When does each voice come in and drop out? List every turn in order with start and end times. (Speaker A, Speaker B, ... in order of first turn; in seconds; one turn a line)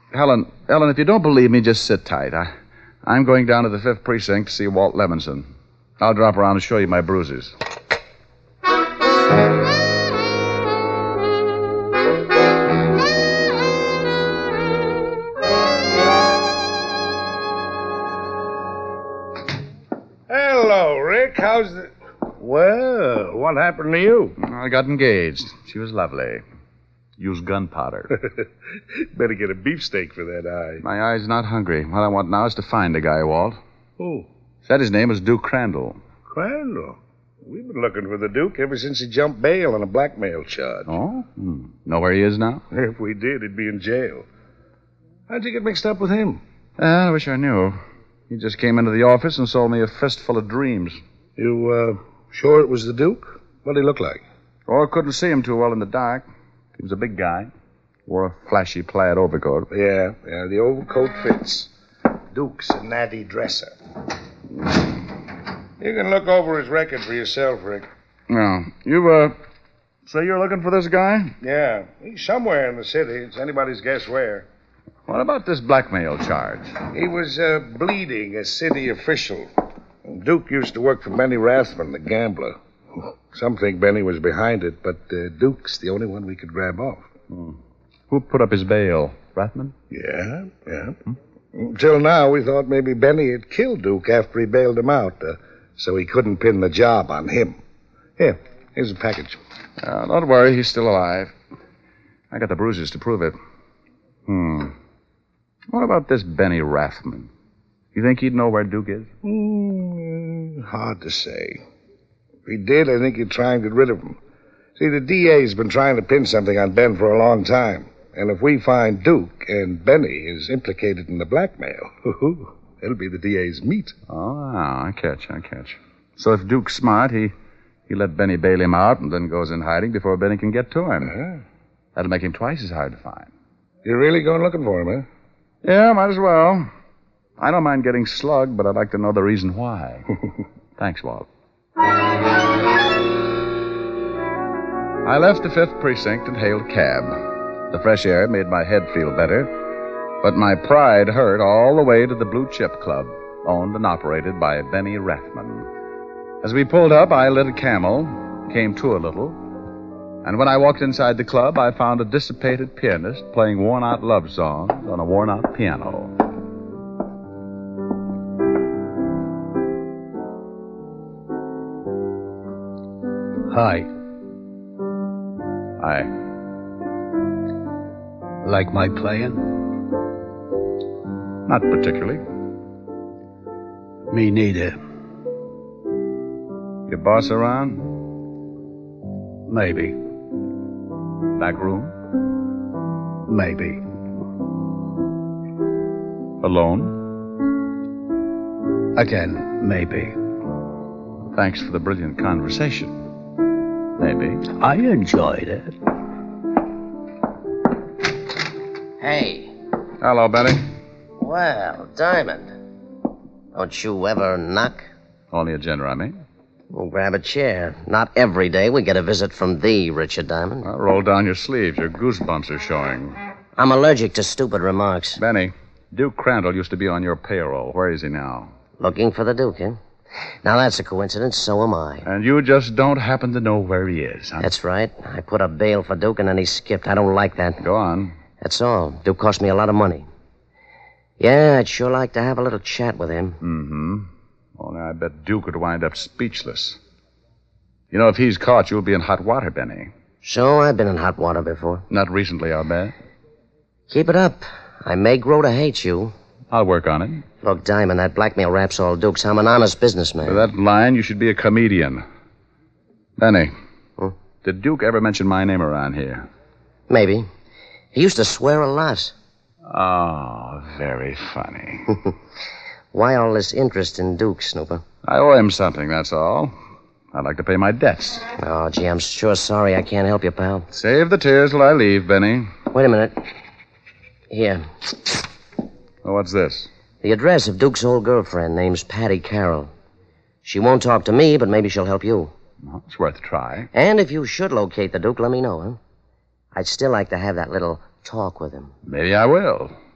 Speaker A: 0.1-2.5
Speaker A: 3.0-5.5
Speaker A: 6.0-7.5
Speaker B: 20.3-24.4
Speaker A: 24.4-26.4
Speaker A: 27.2-28.1
Speaker B: 29.1-30.8
Speaker A: 30.8-33.6
Speaker B: 34.0-34.3
Speaker A: 34.6-36.0
Speaker B: 36.3-40.9
Speaker A: 40.9-42.6
Speaker B: 42.7-44.3
Speaker B: 45.3-46.4
Speaker A: 46.8-47.8
Speaker A: 48.3-51.0
Speaker B: 51.4-54.2
Speaker A: 54.7-56.3
Speaker A: 56.8-57.5
Speaker A: 58.1-59.7
Speaker B: 59.7-61.7
Speaker B: 62.3-63.7
Speaker B: 65.8-67.9
Speaker A: 68.3-69.4
Speaker A: 70.1-71.4
Speaker B: 71.4-74.5
Speaker A: 75.1-76.8
Speaker B: 76.9-79.5
Speaker B: 80.0-87.1
Speaker A: 87.3-87.6
Speaker A: 88.1-89.8
Speaker B: 89.9-91.0
Speaker B: 91.5-97.6
Speaker B: 98.2-99.4
Speaker A: 99.8-101.3
Speaker A: 102.3-103.4
Speaker A: 104.3-104.8
Speaker A: 105.7-107.3
Speaker A: 107.9-109.1
Speaker B: 109.2-111.6
Speaker B: 112.5-114.2
Speaker B: 114.8-123.9
Speaker A: 124.1-127.3
Speaker A: 127.9-131.1
Speaker B: 131.0-131.4
Speaker A: 131.9-133.3
Speaker B: 133.8-135.1
Speaker A: 135.6-136.7
Speaker A: 137.4-140.1
Speaker A: 140.8-141.3
Speaker A: 145.0-149.6
Speaker A: 150.2-155.7
Speaker A: 156.4-159.4
Speaker A: 160.2-166.1
Speaker C: 173.5-173.9
Speaker A: 175.8-176.1
Speaker C: 178.4-179.6
Speaker A: 181.5-182.2
Speaker C: 184.1-184.8
Speaker A: 186.9-187.9
Speaker C: 189.5-190.0
Speaker A: 191.3-192.0
Speaker C: 193.3-193.8
Speaker A: 196.4-197.0
Speaker C: 198.9-200.2
Speaker A: 201.3-202.9
Speaker A: 204.0-204.4
Speaker C: 204.6-205.8
Speaker D: 209.0-209.5
Speaker A: 210.0-210.6
Speaker D: 211.2-212.5
Speaker D: 213.5-214.8
Speaker A: 215.3-216.2
Speaker D: 216.7-220.7
Speaker A: 220.6-223.2
Speaker D: 223.6-225.2
Speaker A: 225.2-228.5
Speaker D: 228.8-229.8
Speaker D: 230.4-232.1
Speaker A: 232.1-234.5
Speaker D: 234.4-237.6
Speaker A: 237.6-238.2
Speaker D: 238.4-240.1
Speaker D: 241.2-243.4
Speaker A: 243.4-246.8
Speaker A: 247.9-249.9
Speaker D: 250.2-251.8
Speaker A: 251.9-252.9
Speaker D: 253.9-256.1
Speaker A: 256.5-257.2
Speaker D: 257.4-260.4
Speaker A: 260.2-262.0
Speaker A: 263.2-263.5
Speaker A: 264.4-266.3
Speaker D: 266.9-267.3
Speaker D: 267.9-269.1
Speaker A: 269.7-272.0
Speaker D: 272.9-274.8
Speaker A: 275.1-276.5
Speaker A: 277.1-278.3
Speaker D: 278.4-280.7
Speaker A: 280.7-282.5
Speaker D: 282.7-283.2
Speaker D: 284.3-285.2
Speaker A: 286.0-286.7
Speaker D: 287.0-289.7
Speaker D: 290.4-292.3
Speaker A: 292.6-293.7
Speaker D: 293.7-295.8
Speaker D: 296.5-298.7
Speaker A: 298.9-299.7